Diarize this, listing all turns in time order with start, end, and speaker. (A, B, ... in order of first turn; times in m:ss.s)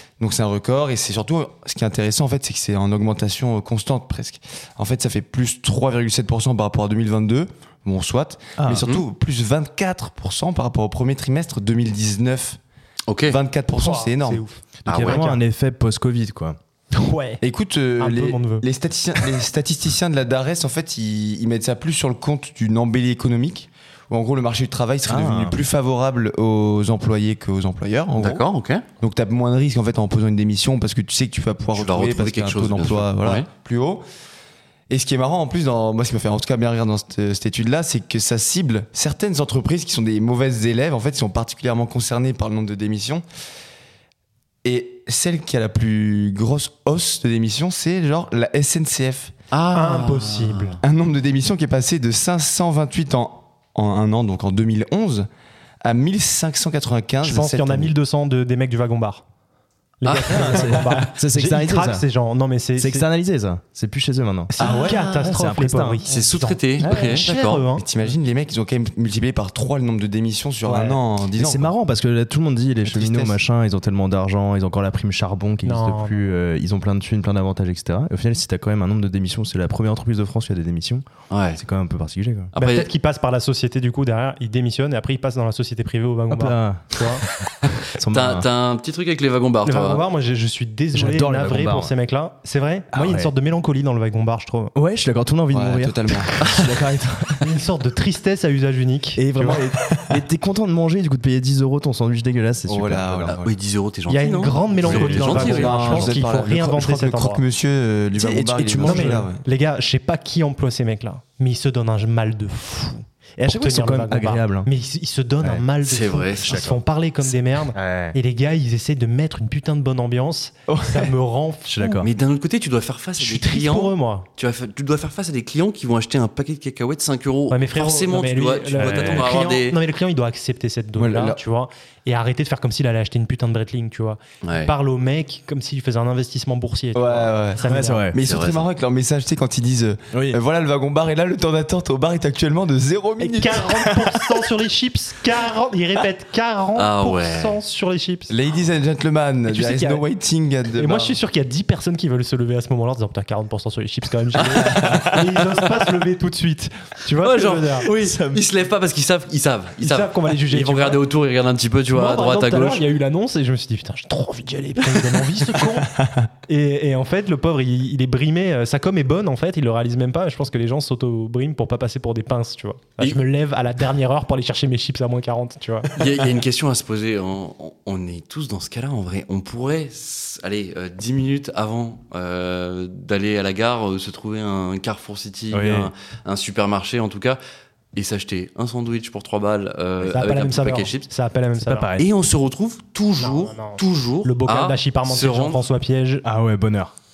0:00.2-0:12.6 A
0:08.6-0:08.9 B
0:08.7-0:09.0 C
0:13.1-0:13.4 C
0:13.3-0:14.4 A
0:13.8-0:15.4 D
0:14.8-0:16.6 B
0:14.9-0:15.3 C
0:16.9-0:17.4 D
0:17.4-0:28.4 A
0:18.0-0:18.7 D
0:25.1-0:25.6 B
0:28.2-0:28.8 C
0:29.0-0:34.0 A
0:31.8-0:33.5 C
0:34.9-0:43.2 A
0:44.6-0:49.3 A
0:49.5-0:50.8 C
0:49.8-0:50.8 D
0:50.8-0:55.3 A
0:55.8-0:57.9 A
0:57.2-0:59.2 D
1:00.0-1:03.1 D
1:00.1-1:00.9 C
1:00.1-1:02.0 B
1:02.8-1:06.0 B
1:04.5-1:07.9 D
1:04.6-1:05.3 C
1:04.6-1:05.0 A
1:06.1-1:07.6 C
1:06.8-1:07.2 B
1:07.8-1:11.7 A
1:10.7-1:21.0 B
1:12.8-1:13.4 A
1:15.6-1:16.3 D
1:21.3-1:21.6 C
1:21.6-1:22.5 B
1:22.5-1:22.9 C
1:22.6-1:27.2 D
1:26.3-1:27.1 B
1:28.0-1:28.5 B
1:28.0-1:30.0 C
1:29.6-1:34.7 D
1:30.9-1:31.9 B
1:32.9-1:33.3 B
1:34.7-1:37.4 B
1:35.5-1:36.5 A
1:37.4-1:39.6 D
1:39.2-1:43.4 B
1:42.7-1:43.5 A
1:43.4-1:46.1 C
1:44.1-1:47.4 D
1:44.8-1:46.1 B
1:45.1-1:49.4 A
1:48.1-1:49.3 B
1:48.8-2:02.1 D
1:53.4-1:54.7 B
1:55.8-1:56.7 C
1:56.4-1:58.2 B
2:00.7-2:01.1 A
2:01.7-2:02.1 B
2:02.0-2:09.8 C
2:03.2-2:04.3 D
2:07.5-2:18.1 D
2:08.8-2:09.3 B
2:11.0-2:11.4 A
2:14.4-2:14.7 C
2:17.0-2:24.0 A
2:17.6-2:18.2 B
2:18.2-2:18.7 C
2:20.1-2:20.4 B
2:23.2-2:28.4 D
2:26.8-2:27.6 C
2:28.3-2:31.2 A
2:29.5-2:30.0 D
2:30.8-2:37.9 D
2:34.6-2:35.3 B
2:37.2-2:42.8 C
2:37.8-2:38.4 B
2:39.8-2:41.0 D
2:41.9-2:46.0 D
2:46.0-2:46.3 A
2:46.5-2:55.9 D
2:56.0-3:07.4 C
3:05.5-3:05.9 B
3:08.0-3:11.1 C
3:10.0-3:11.9 D
3:11.6-3:12.1 B
3:12.0-3:15.6 C
3:13.2-3:16.2 D
3:16.2-3:16.9 B